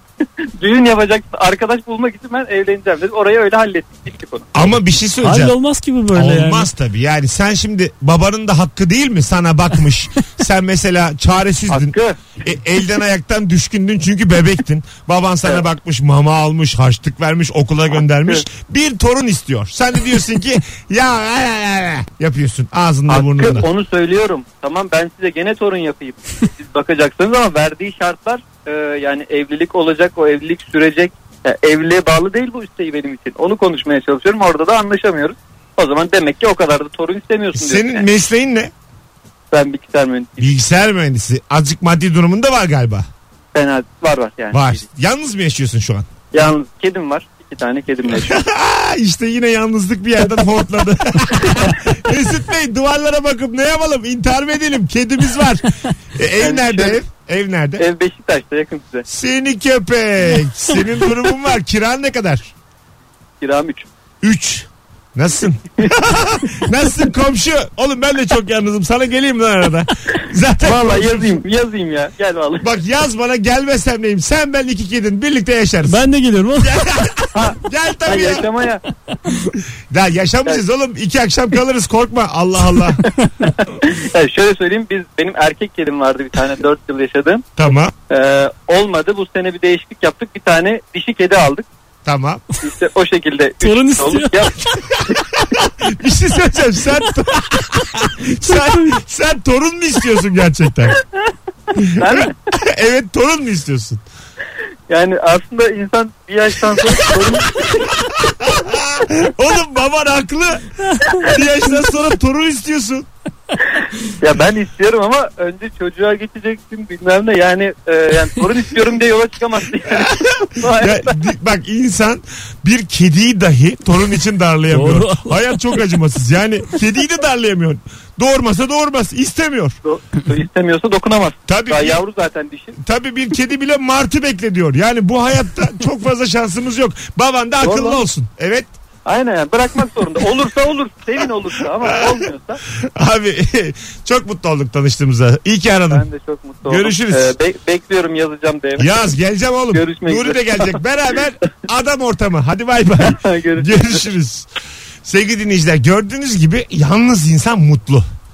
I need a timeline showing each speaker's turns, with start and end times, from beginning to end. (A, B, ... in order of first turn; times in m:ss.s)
0:00.6-0:04.5 A
0:04.5-0:05.6 B
0:05.2-0:06.7 C
0:06.1-0:23.7 B
0:11.7-0:12.2 A
0:23.1-0:38.1 A
0:37.5-0:38.7 B
0:39.5-0:40.5 A
0:40.4-0:43.1 B
0:43.5-0:44.8 A
0:44.5-0:46.1 B
0:46.3-0:48.4 A
0:48.1-0:57.8 B
0:56.4-0:57.0 A
0:57.8-0:59.1 A
0:59.1-1:02.5 B
1:03.4-1:03.9 A
1:04.2-1:11.4 B
1:10.6-1:12.7 A
1:12.6-1:16.0 B
1:15.9-1:17.1 C
1:16.6-1:18.5 B
1:17.3-1:18.8 A
1:19.9-1:23.0 B
1:23.6-1:27.5 A
1:27.6-1:27.9 B
1:28.1-1:31.7 A
1:32.0-1:32.4 B
1:32.6-1:34.5 A
1:33.6-1:34.7 C
1:35.1-1:41.0 B
1:38.4-1:39.0 C
1:41.8-1:44.0 B
1:41.9-1:42.3 A
1:44.9-1:47.9 A
1:47.0-1:53.1 B
1:54.1-2:01.2 A
1:59.8-2:09.8 B
2:04.7-2:05.4 C
2:09.8-2:12.8 A
2:11.5-2:12.0 B
2:12.8-2:18.7 B
2:17.6-2:18.0 A
2:19.0-2:22.6 A
2:21.8-2:22.2 B
2:22.7-2:26.0 B
2:25.9-2:28.9 A
2:26.6-2:27.3 B
2:28.8-2:34.5 B
2:29.7-2:30.8 A
2:33.0-2:34.0 A
2:35.0-2:38.1 B